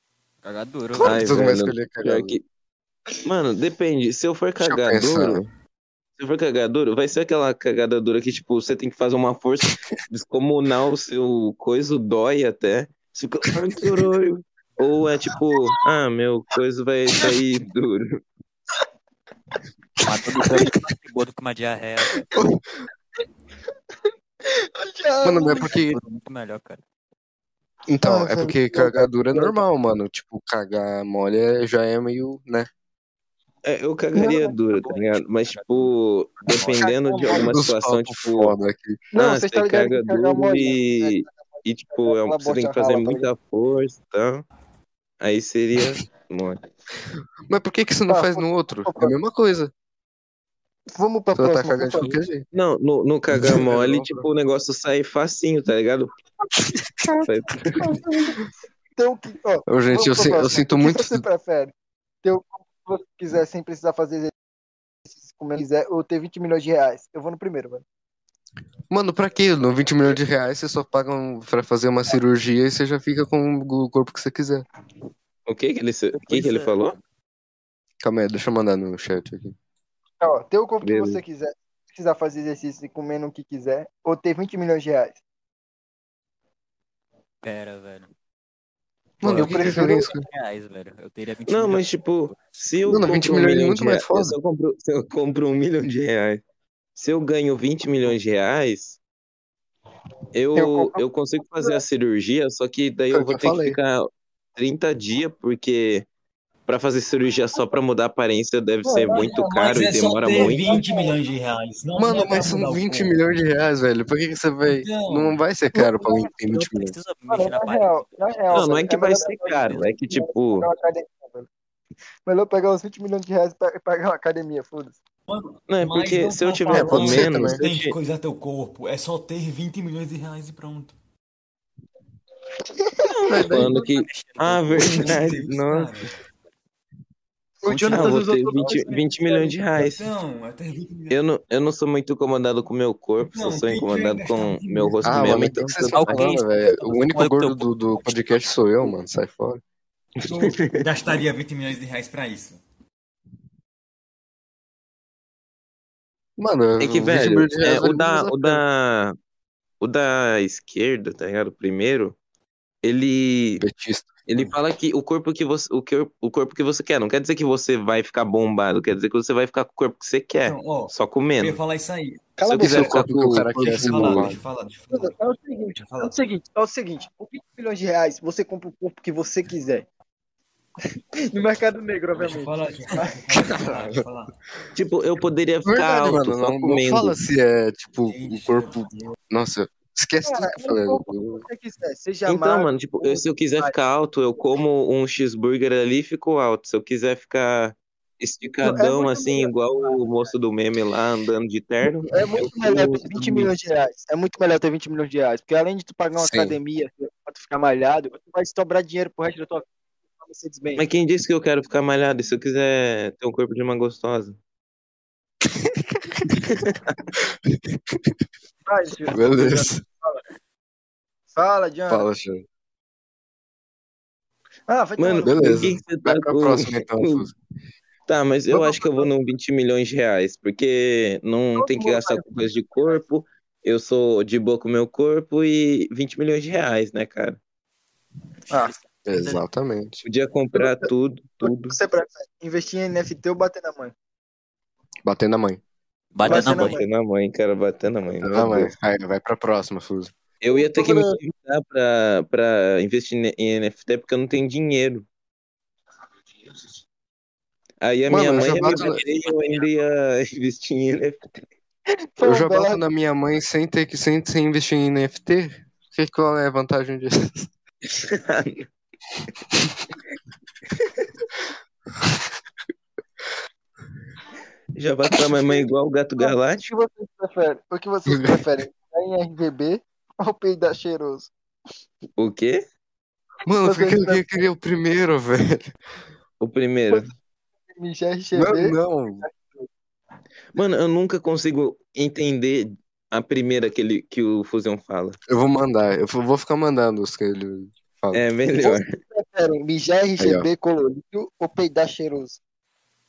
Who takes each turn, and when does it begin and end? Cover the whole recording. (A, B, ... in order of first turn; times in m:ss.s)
0:00.4-0:01.2 A
0:01.0-0:02.4 B
0:01.0-0:02.4 C
0:03.2-0:05.5 C
0:04.6-0:05.4 B
0:06.2-0:18.1 C
0:20.0-0:22.3 A
0:22.3-0:22.6 B
0:24.5-0:25.8 D
0:25.2-0:26.0 B
0:25.4-0:26.8 A
0:27.9-0:32.7 B
0:28.0-0:29.6 D
0:33.6-0:38.5 C
0:34.1-0:34.5 D
0:34.5-0:36.9 A
0:36.8-0:37.5 D
0:37.3-0:39.0 B
0:39.1-0:43.3 D
0:39.2-0:44.4 C
0:45.2-0:46.6 C
0:47.5-0:49.7 B
0:48.1-0:49.1 D
0:50.9-0:52.2 D
0:51.4-0:52.4 B
0:52.5-0:56.1 C
0:53.3-0:54.3 B
0:57.1-0:57.8 C
0:57.8-1:01.7 D
0:59.7-1:01.2 B
1:02.2-1:04.3 D
1:05.3-1:07.8 D
1:08.9-1:14.6 B
1:15.5-1:17.0 C
1:16.1-1:17.0 A
1:18.0-1:19.6 B
1:20.2-1:25.2 D
1:20.8-1:21.2 C
1:27.4-1:28.1 A
1:29.2-1:30.3 B
1:29.2-1:32.7 A
1:29.3-1:30.1 D
1:31.5-1:36.4 C
1:32.9-1:34.3 B
1:37.0-1:39.0 C
1:40.3-1:46.1 C
1:40.5-1:41.0 D
1:43.1-1:43.8 B
1:46.7-1:50.8 C
1:48.8-1:49.8 D
1:49.1-1:53.2 E
1:50.4-1:51.1 D
1:52.0-1:56.9 B
1:54.7-1:55.4 E
1:55.7-1:56.2 D
1:56.3-1:58.8 A
1:57.3-2:01.5 D
1:58.5-2:00.7 C
1:59.4-1:59.9 A
2:02.2-2:05.0 D
2:05.3-2:11.0 E
2:05.7-2:08.0 C
2:06.7-2:07.6 B
2:12.8-2:13.8 D
2:13.3-2:15.9 C
2:13.4-2:13.6 B
2:13.6-2:15.2 A
2:14.8-2:16.2 E
2:17.6-2:19.5 D
2:17.7-2:18.2 A
2:17.9-2:20.1 C
2:19.8-2:21.2 E
2:21.1-2:26.3 C
2:23.2-2:25.5 E
2:25.0-2:29.6 B
2:25.7-2:28.4 A
2:30.2-2:32.6 E
2:30.3-2:30.8 C
2:36.4-2:38.6 B
2:36.8-2:39.1 C
2:39.8-2:42.2 C
2:42.8-2:43.6 C
2:43.6-2:44.2 B
2:44.3-2:51.6 C
2:50.4-2:52.2 E
2:52.4-2:53.0 D
2:52.5-2:54.3 C
2:52.6-2:54.4 B
2:53.6-2:55.1 E
2:54.9-2:59.8 D
2:55.8-2:56.1 E
3:01.3-3:03.3 D
3:02.2-3:04.4 E
3:03.6-3:04.0 B
3:04.7-3:07.2 C
3:05.6-3:11.4 B
3:08.1-3:09.2 E
3:10.2-3:13.7 D
3:12.3-3:23.4 C
3:18.6-3:20.1 D
3:22.0-3:30.8 D
3:26.2-3:26.6 B
3:30.8-3:34.4 C
3:35.7-3:36.3 B
3:36.4-3:36.8 C
3:37.4-3:38.1 B
3:38.6-3:40.2 D
3:39.1-3:39.8 B
3:41.3-3:42.1 D
3:41.9-3:42.4 B
3:44.7-3:45.7 D
3:45.0-3:47.2 C
3:45.2-3:47.3 B
3:48.1-3:57.4 C
3:48.5-3:49.1 D
3:51.5-3:53.0 D
3:58.5-3:59.4 A
3:59.0-4:00.0 B
4:00.0-4:01.8 C
4:00.5-4:00.9 D
4:01.4-4:03.9 D
4:05.0-4:05.6 B
4:06.1-4:06.8 A
4:06.2-4:06.8 D
4:06.3-4:08.7 C
4:08.2-4:10.1 B
4:10.4-4:15.0 C
4:10.5-4:11.2 D
4:17.8-4:21.3 C
4:18.1-4:19.0 B
4:18.4-4:19.7 A
4:22.2-4:22.8 D
4:22.2-4:27.5 B
4:27.9-4:28.7 C
4:30.7-4:31.0 C
4:34.8-4:36.7 C
4:36.2-4:41.3 D
4:38.1-4:38.5 B
4:42.2-4:42.6 C
4:43.4-4:45.7 B
4:43.6-4:44.4 D
4:46.4-4:47.1 C
4:47.7-4:49.7 D
4:48.3-4:49.2 B
4:50.5-4:55.2 C
4:55.3-4:58.2 B
4:58.1-4:58.9 C
4:58.6-5:02.4 D
5:00.2-5:00.5 B